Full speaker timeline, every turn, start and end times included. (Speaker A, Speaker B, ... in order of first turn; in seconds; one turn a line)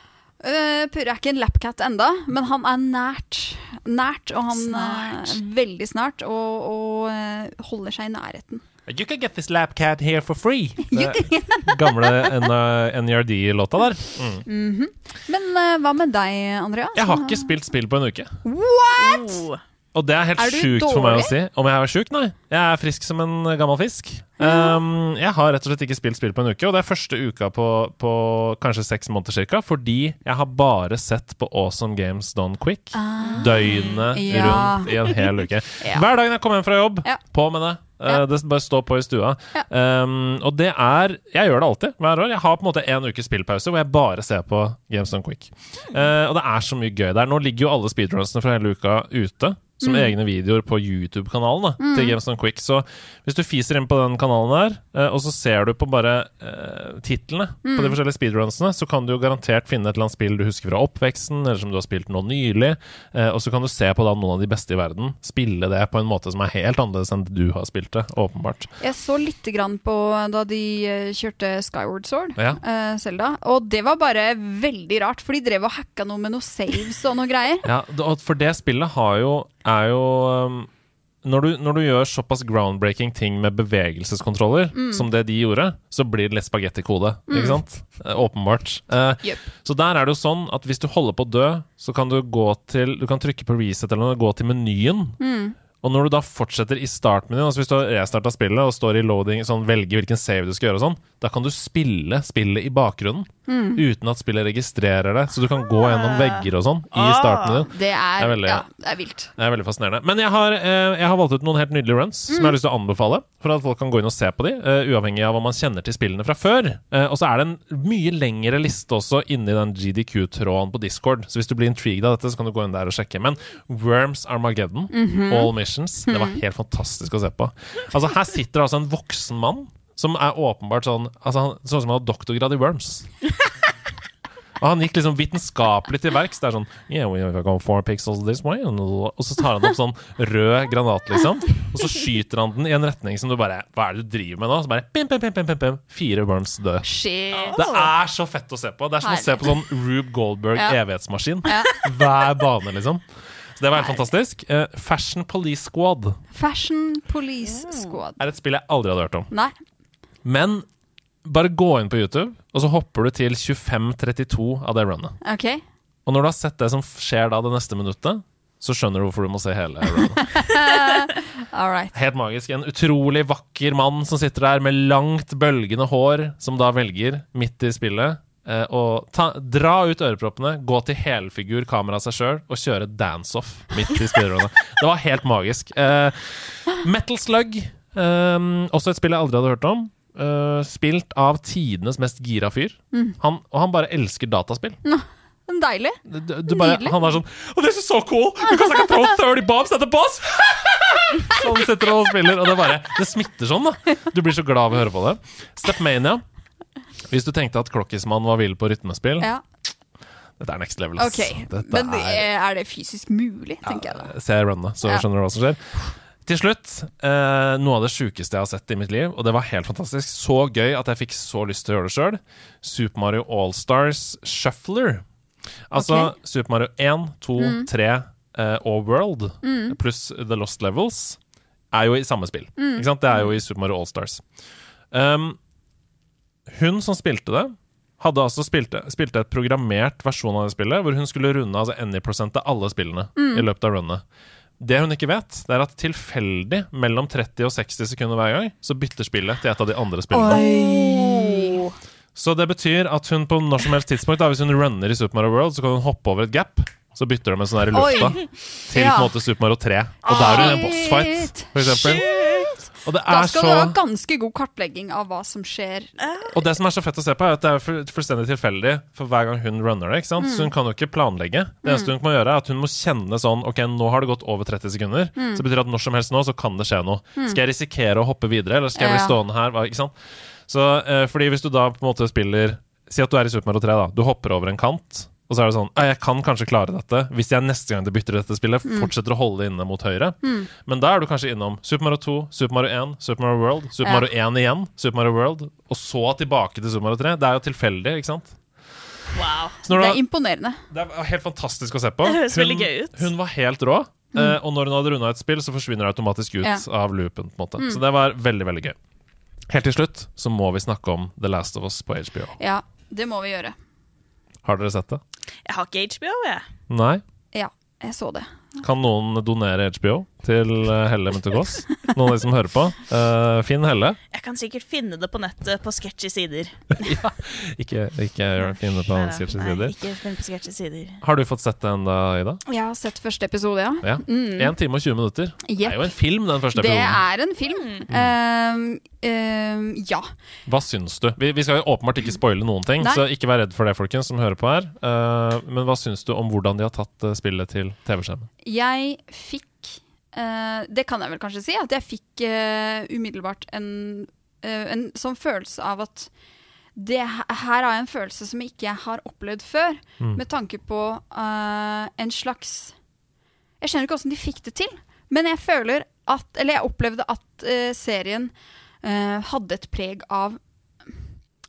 Speaker A: 0.4-8.6
Speaker B: 8.8-14.4
Speaker A: 10.8-12.4
Speaker A: 14.4-17.5
Speaker B: 16.9-18.4
Speaker A: 18.4-19.4
Speaker C: 19.0-19.6
Speaker B: 19.9-68.7
Speaker A: 20.4-21.3
Speaker A: 24.4-24.8
Speaker A: 32.9-35.2
Speaker C: 33.3-34.0
Speaker A: 49.8-50.1
Speaker A: 51.8-52.2
Speaker A: 57.6-58.0
Speaker A: 68.8-77.7
Speaker B: 77.6-80.7
Speaker B: 81.2-95.2
Speaker A: 84.7-85.1
Speaker A: 87.3-87.6
Speaker A: 95.2-95.5
Speaker B: 95.8-108.7
Speaker A: 103.5-103.8
Speaker C: 105.7-107.6
Speaker A: 107.7-109.3
Speaker B: 109.4-133.1
Speaker A: 112.3-112.5
Speaker A: 124.9-125.5
Speaker A: 126.1-126.4
Speaker B: 134.6-146.9
Speaker A: 146.8-147.6
Speaker C: 147.3-147.9
Speaker B: 147.5-153.0
Speaker A: 149.0-149.6
Speaker A: 151.4-151.8
Speaker B: 153.6-156.2
Speaker A: 153.8-154.0
Speaker A: 156.3-158.2
Speaker C: 157.5-157.9
Speaker B: 158.2-159.3
Speaker B: 160.2-160.7
Speaker B: 161.2-165.2
Speaker A: 165.2-165.6
Speaker B: 166.1-170.2
Speaker A: 169.9-171.9
Speaker B: 171.9-194.8
Speaker A: 194.8-197.1
Speaker B: 196.0-206.2
Speaker A: 198.4-199.1
Speaker B: 207.1-209.3
Speaker B: 210.4-212.3
Speaker A: 211.0-214.1
Speaker B: 213.6-225.0
Speaker B: 225.7-231.2
Speaker A: 225.7-226.1
Speaker A: 227.4-227.7
Speaker A: 229.4-229.8
Speaker B: 231.7-234.2
Speaker A: 232.6-232.9
Speaker B: 234.9-235.4
Speaker B: 236.5-244.0
Speaker A: 243.2-243.4
Speaker B: 244.6-250.4
Speaker A: 250.1-251.7
Speaker C: 250.3-251.6
Speaker B: 252.1-262.1
Speaker A: 257.7-259.1
Speaker A: 260.0-265.9
Speaker C: 260.1-260.6
Speaker C: 261.8-262.5
Speaker B: 262.8-263.8
Speaker C: 266.0-266.3
Speaker B: 266.3-298.4
Speaker A: 270.2-270.5
Speaker A: 271.6-271.9
Speaker A: 275.1-275.4
Speaker A: 278.7-279.1
Speaker A: 288.6-288.9
Speaker A: 290.2-290.5
Speaker C: 299.1-299.6
Speaker B: 299.6-300.0
Speaker A: 299.6-300.6
Speaker B: 300.7-308.8
Speaker C: 302.0-303.1
Speaker B: 309.5-312.4
Speaker A: 312.4-313.6
Speaker B: 314.4-315.0
Speaker C: 315.4-316.4
Speaker B: 316.7-317.0
Speaker A: 317.3-318.6
Speaker B: 318.6-324.0
Speaker C: 324.1-326.6
Speaker B: 326.8-329.7
Speaker C: 328.4-331.0
Speaker B: 331.0-332.4
Speaker A: 332.5-334.5
Speaker B: 333.8-337.0
Speaker A: 335.4-335.9
Speaker A: 336.5-340.1
Speaker C: 337.5-337.8
Speaker B: 337.9-338.1
Speaker B: 340.4-348.3
Speaker A: 348.4-356.1
Speaker A: 356.8-362.8
Speaker A: 363.6-370.9